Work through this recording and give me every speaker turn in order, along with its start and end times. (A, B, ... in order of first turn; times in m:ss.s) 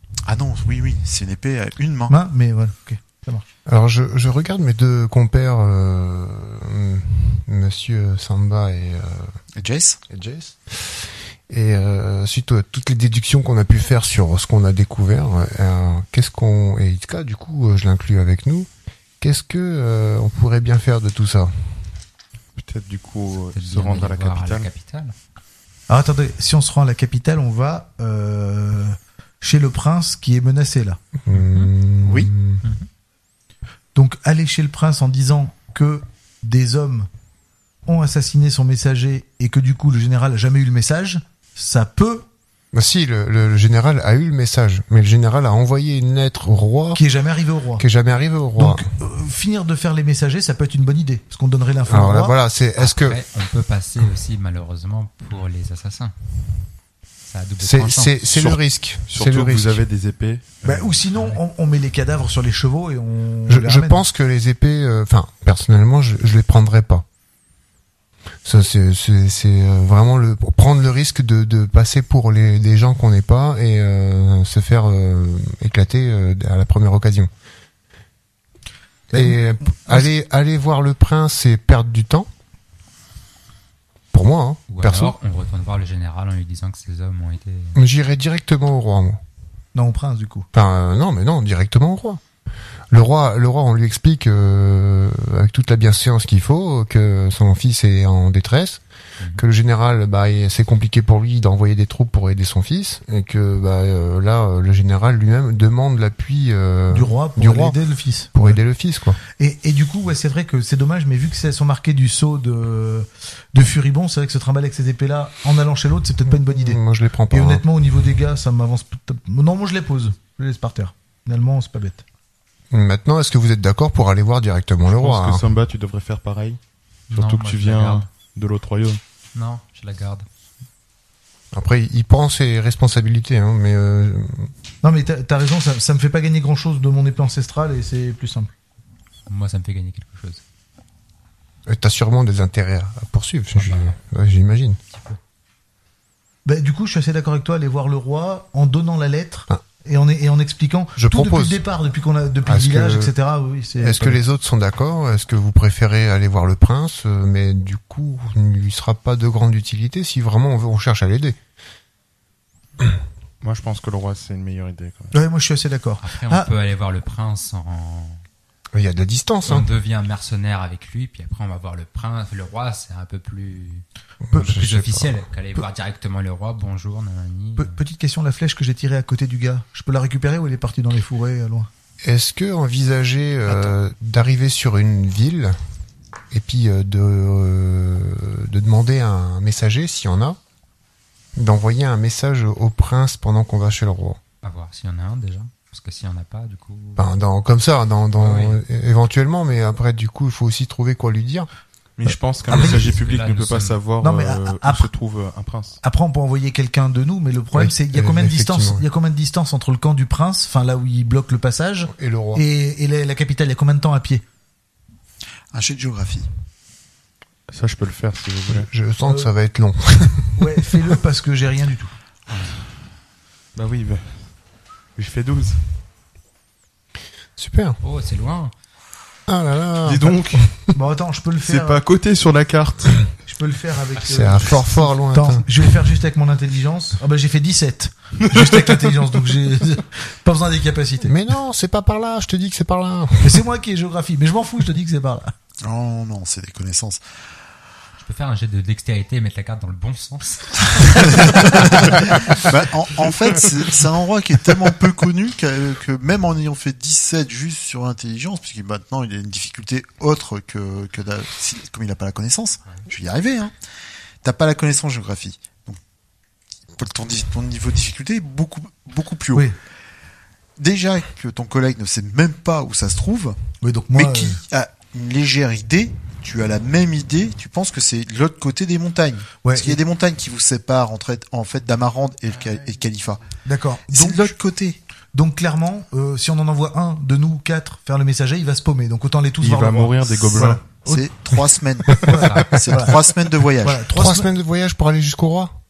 0:00.2-0:02.2 A
0:02.1-0:03.4 B
0:03.6-0:09.3 C
0:09.6-0:10.0 A
0:10.1-0:18.7 C
0:19.2-0:21.8 C
0:22.6-0:24.7 D
0:23.5-0:25.1 E
0:25.9-0:31.0 B
0:31.2-0:32.6 C
0:31.3-0:31.7 E
0:32.0-0:32.3 A
0:33.9-0:37.1 B
0:37.8-0:42.2 B
0:42.7-0:47.0 C
0:46.9-0:47.8 B
0:47.8-0:48.9 C
0:48.6-0:52.3 B
0:51.9-0:53.2 C
0:52.8-0:56.1 E
0:57.2-0:58.2 E
0:57.6-0:59.8 C
0:58.3-1:01.0 D
1:00.6-1:04.0 B
1:01.1-1:01.4 E
1:03.5-1:07.0 C
1:08.4-1:17.3 C
1:19.1-1:20.1 B
1:19.1-1:22.3 C
1:24.1-1:25.1 C
1:24.7-1:27.8 E
1:27.7-1:29.2 C
1:29.7-1:30.5 B
1:30.5-1:32.2 C
1:32.9-1:38.8 C
1:39.2-1:39.4 E
1:39.3-1:47.8 C
1:46.9-1:48.6 B
1:48.3-1:49.2 C
1:49.3-2:02.0 B
1:56.2-1:57.6 C
2:02.7-2:05.4 C
2:04.9-2:06.6 D
2:07.1-2:08.1 E
2:07.1-2:09.0 D
2:09.3-2:10.2 E
2:11.5-2:14.5 C
2:14.8-2:18.5 B
2:19.3-2:20.4 E
2:21.6-2:24.8 C
2:23.6-2:23.9 E
2:26.4-2:34.2 B
2:31.0-2:31.6 C
2:32.4-2:33.1 C
2:33.8-2:41.4 C
2:43.4-2:45.2 D
2:45.1-2:46.5 B
2:46.0-2:48.2 E
2:48.7-2:49.7 C
2:49.4-2:57.8 E
2:54.3-2:55.2 C
2:57.6-3:01.7 B
3:02.0-3:05.6 C
3:06.3-3:10.4 C
3:11.4-3:14.2 C
3:14.4-3:17.1 E
3:17.0-3:21.5 C
3:18.2-3:18.6 E
3:22.0-3:25.8 D
3:22.5-3:23.8 E
3:22.5-3:22.9 B
3:24.0-3:24.9 B
3:25.8-3:34.2 B
3:27.5-3:28.8 C
3:31.8-3:32.4 C
3:35.5-3:36.3 A
3:37.5-3:38.7 D
3:38.5-3:41.0 C
3:39.0-3:39.3 B
3:40.4-3:41.9 B
3:42.3-3:42.5 E
3:43.5-3:44.3 D
3:44.9-3:45.6 D
3:47.4-3:47.8 C
3:47.8-3:48.5 E
3:49.3-3:50.6 C
3:49.8-3:50.7 D
3:50.7-3:51.8 B
3:51.4-3:53.2 D
3:53.2-4:01.1 B
3:54.0-3:55.5 C
3:58.2-3:58.9 D
4:01.0-4:03.4 C
4:03.2-4:05.3 B
4:05.6-4:07.0 A
4:08.0-4:12.0 E
4:11.1-4:23.5 A
4:24.2-4:25.8 A
4:26.8-4:29.5 A
4:30.6-4:33.4 A
4:33.6-4:34.4 B
4:33.9-4:43.2 A
4:39.4-4:39.8 B
4:43.4-4:44.3 B
4:43.9-4:44.8 A
4:45.1-4:51.1 B
4:49.4-4:50.6 D
4:50.8-4:53.8 A
4:51.9-4:53.0 B
4:52.1-4:52.5 E
4:53.6-4:54.3 B
4:53.9-4:55.5 C